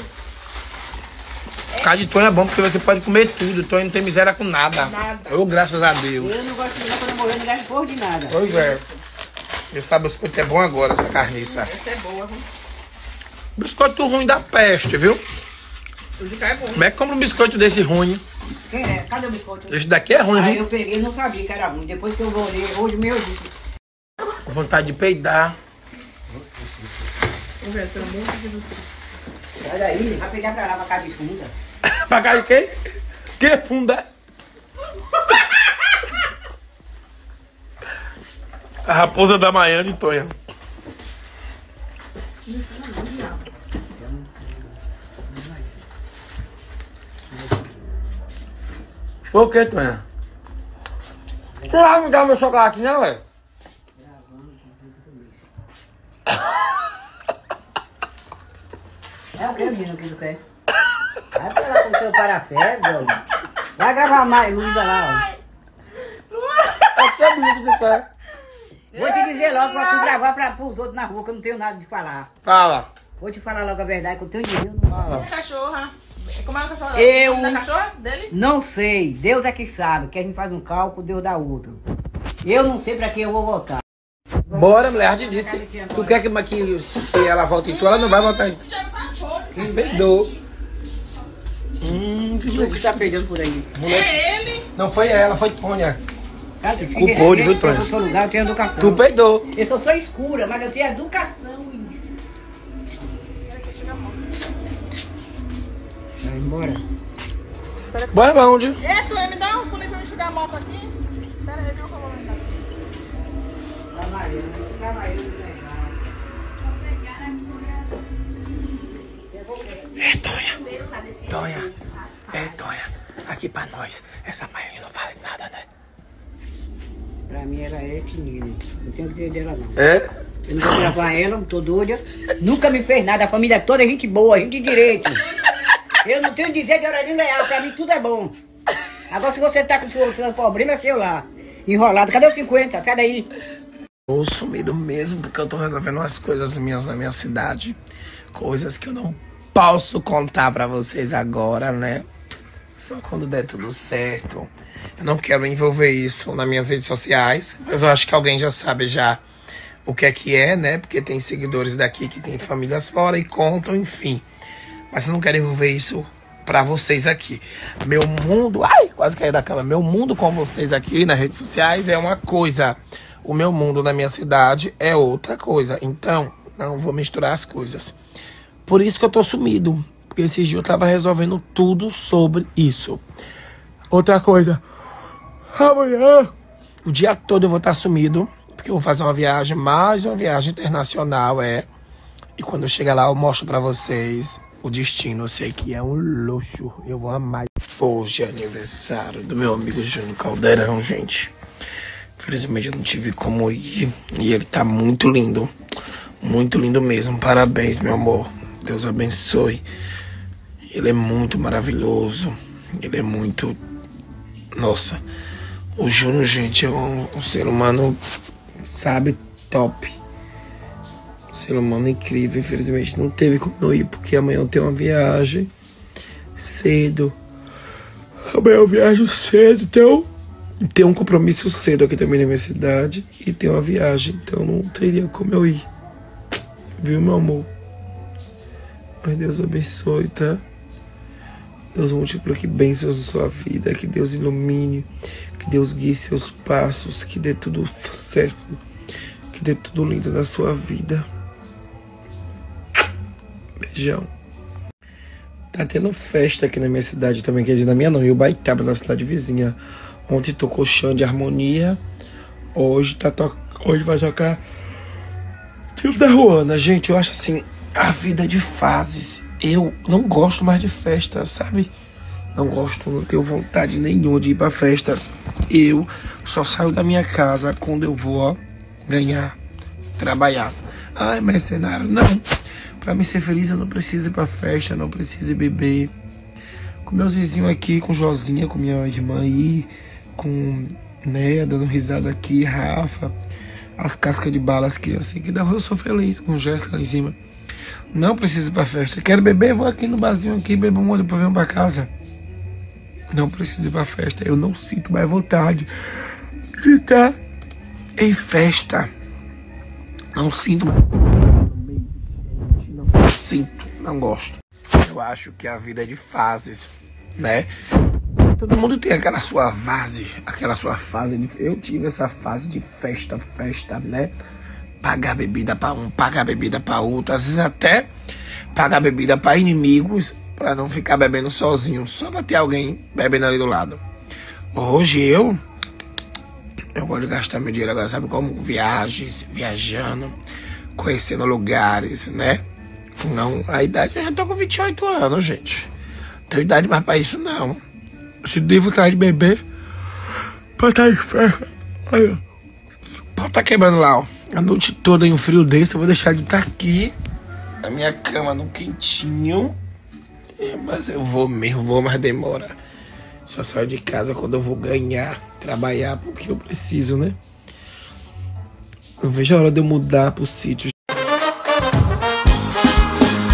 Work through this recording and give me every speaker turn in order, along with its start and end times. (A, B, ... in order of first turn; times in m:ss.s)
0:01.8-0:06.4 A
0:04.8-0:05.4 B
0:06.2-0:08.4 C
0:08.3-0:08.8 A
0:09.7-0:11.7 A
0:11.5-0:12.4 B
0:13.6-0:15.2 A
0:16.2-0:16.9 B
0:16.7-0:18.2 A
0:18.6-0:19.8 C
0:19.7-0:20.6 A
0:20.3-0:23.5 C
0:24.4-0:25.6 A
0:27.6-0:28.8 B
0:29.6-0:31.5 C
0:31.8-0:32.7 A
0:33.4-0:34.1 A
0:38.8-0:40.4 A
0:42.5-0:43.4 B
0:43.9-0:45.8 C
0:47.3-0:47.7 C
0:49.2-0:50.0 A
0:51.5-0:51.9 C
0:51.7-0:53.2 A
0:53.9-0:55.4 C
0:59.3-1:00.4 C
1:01.3-1:03.2 C
1:03.7-1:05.2 C
1:06.3-1:06.9 B
1:07.0-1:08.0 A
1:08.9-1:12.3 C
1:08.9-1:10.2 B
1:12.4-1:12.9 A
1:13.2-1:15.2 C
1:14.9-1:15.3 A
1:15.1-1:18.3 B
1:16.9-1:17.6 C
1:18.3-1:21.8 C
1:22.4-1:23.8 C
1:24.5-1:28.6 A
1:24.6-1:26.2 C
1:27.6-1:30.4 B
1:29.5-1:30.0 C
1:29.6-1:30.3 A
1:31.8-1:33.1 A
1:32.5-1:33.7 C
1:33.7-1:34.2 A
1:33.8-1:34.7 B
1:34.7-1:36.0 A
1:36.6-1:42.1 C
1:36.8-1:37.9 A
1:38.8-1:39.5 A
1:43.5-1:44.3 B
1:46.2-1:46.8 C
1:47.9-1:48.3 B
1:48.1-1:48.8 A
1:48.8-1:50.9 B
1:51.4-1:52.6 B
1:53.9-1:56.0 C
1:59.3-1:59.9 C
2:00.0-2:00.6 A
2:01.2-2:01.8 A
2:02.3-2:05.6 A
2:07.3-2:09.8 C
2:09.8-2:10.0 A
2:10.4-2:15.2 C
2:10.6-2:10.9 A
2:16.0-2:18.4 C
2:19.1-2:23.3 C
2:24.1-2:27.8 A
2:28.3-2:32.0 A
2:32.8-2:39.2 A
2:39.8-2:44.2 A
2:44.9-2:57.9 A
2:58.6-3:03.0 A
3:03.9-3:04.6 A
3:05.5-3:06.3 A
3:06.8-3:11.7 A
3:12.4-3:21.3 A
3:22.2-3:25.5 A
3:26.2-3:29.6 A
3:30.7-3:33.6 A
3:34.6-3:35.0 A
3:35.8-3:38.0 A
3:38.6-3:40.0 A
3:41.3-3:45.5 A
3:46.4-3:47.2 A
3:48.3-3:50.1 A
3:50.6-3:55.6 A
3:56.8-3:57.5 A
3:59.0-4:00.4 A
4:01.7-4:08.6 A
4:09.3-4:11.0 A
4:13.7-4:14.1 A
4:15.5-4:21.8 A
4:22.5-4:24.4 A
4:25.8-4:31.7 A
4:32.3-4:39.4 A
4:40.0-4:42.2 A
4:42.8-4:45.9 A
4:46.8-4:53.1 A
4:53.8-4:57.2 A
4:57.9-5:01.9 A
5:03.1-5:05.7 A
5:06.6-5:07.2 A
5:08.0-5:08.9 A
5:10.1-5:17.5 A
5:18.2-5:24.1 A
5:24.8-5:27.9 A
5:28.5-5:33.8 A
5:34.5-5:35.4 A
5:36.7-5:40.2 A
5:40.8-5:42.4 A
5:43.0-5:45.7 A
5:46.3-5:47.6 A
5:48.2-5:49.4 A
5:50.6-5:52.2 A
5:53.2-5:56.9 A
5:57.6-5:59.5 A
6:00.4-6:02.6 A
6:03.2-6:07.2 A
6:09.0-6:10.7 A